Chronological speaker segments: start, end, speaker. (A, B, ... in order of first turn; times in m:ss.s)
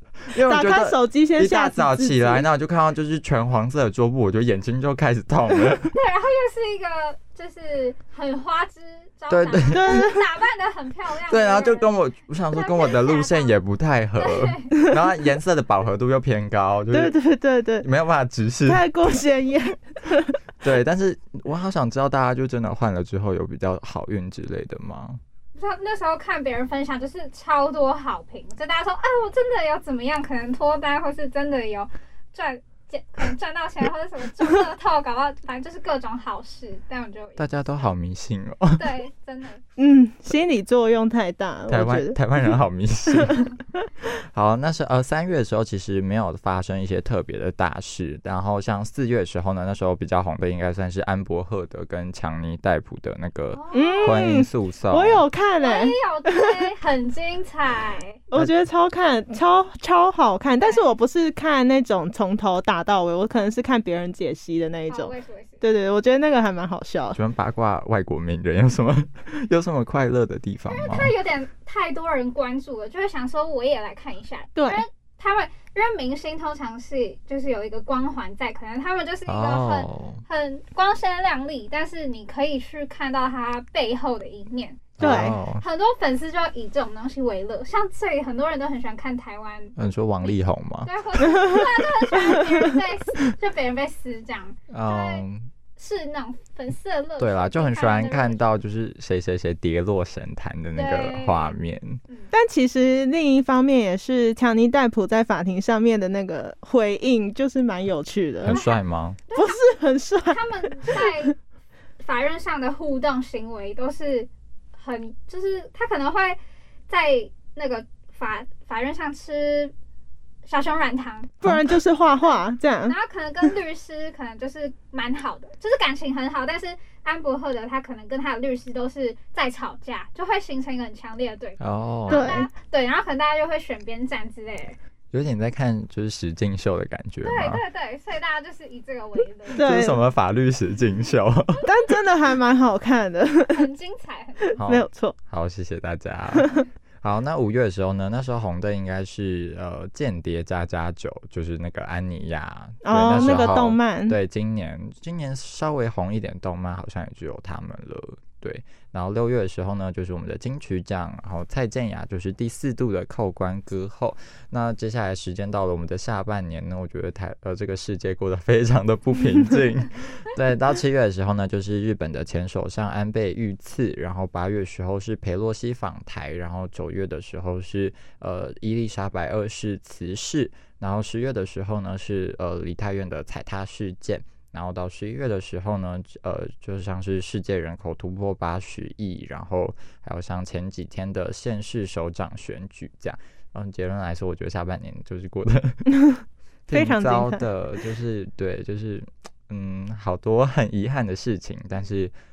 0:00.2-0:06.0 A
0:00.4-0:02.4 B
0:05.9-0:11.9 C
0:09.3-0:10.1 A
0:09.7-0:10.2 B
0:11.3-0:17.2 A
0:12.5-0:13.6 C
0:14.2-0:14.7 C
0:16.9-0:17.8 B
0:17.8-0:18.8 A
0:18.6-0:20.4 B
0:20.6-0:25.2 A
0:25.5-0:37.9 C
0:37.4-0:38.9 A
0:38.7-0:39.6 C
0:39.8-0:42.2 B
0:41.7-0:43.4 A
0:43.2-0:44.0 B
0:44.0-0:55.2 A
0:53.5-0:54.2 C
0:53.7-0:56.6 B
0:55.6-0:58.2 C
0:58.3-1:07.2 B
1:00.6-1:00.9 C
1:04.9-1:05.6 C
1:07.1-1:11.1 A
1:10.7-1:35.2 C
1:14.5-1:14.8 B
1:19.3-1:20.2 A
1:25.0-1:25.3 B
1:25.0-1:25.6 A
1:29.8-1:30.9 A
1:32.4-1:32.6 B
1:34.7-1:35.5 A
1:35.8-1:38.4 C
1:37.2-1:42.0 A
1:40.7-1:42.3 C
1:42.3-1:48.6 B
1:48.4-1:49.2 A
1:49.3-1:49.7 C
1:49.3-1:51.2 B
1:50.3-1:51.4 C
1:52.0-1:59.7 C
2:00.4-2:01.3 C
2:01.4-2:03.0 B
2:01.4-2:01.7 A
2:02.9-2:14.8 C
2:11.6-2:12.4 A
2:12.1-2:12.5 B
2:15.1-2:17.6 A
2:17.2-2:19.6 C
2:19.5-2:21.6 A
2:19.5-2:20.0 B
2:21.6-2:23.7 B
2:23.5-2:24.6 C
2:24.6-3:15.8 A
2:24.6-2:25.2 B
2:26.4-2:26.6 B
2:32.8-2:34.2 B
2:33.1-2:33.6 C
3:16.7-3:22.1 A
3:16.7-3:17.4 B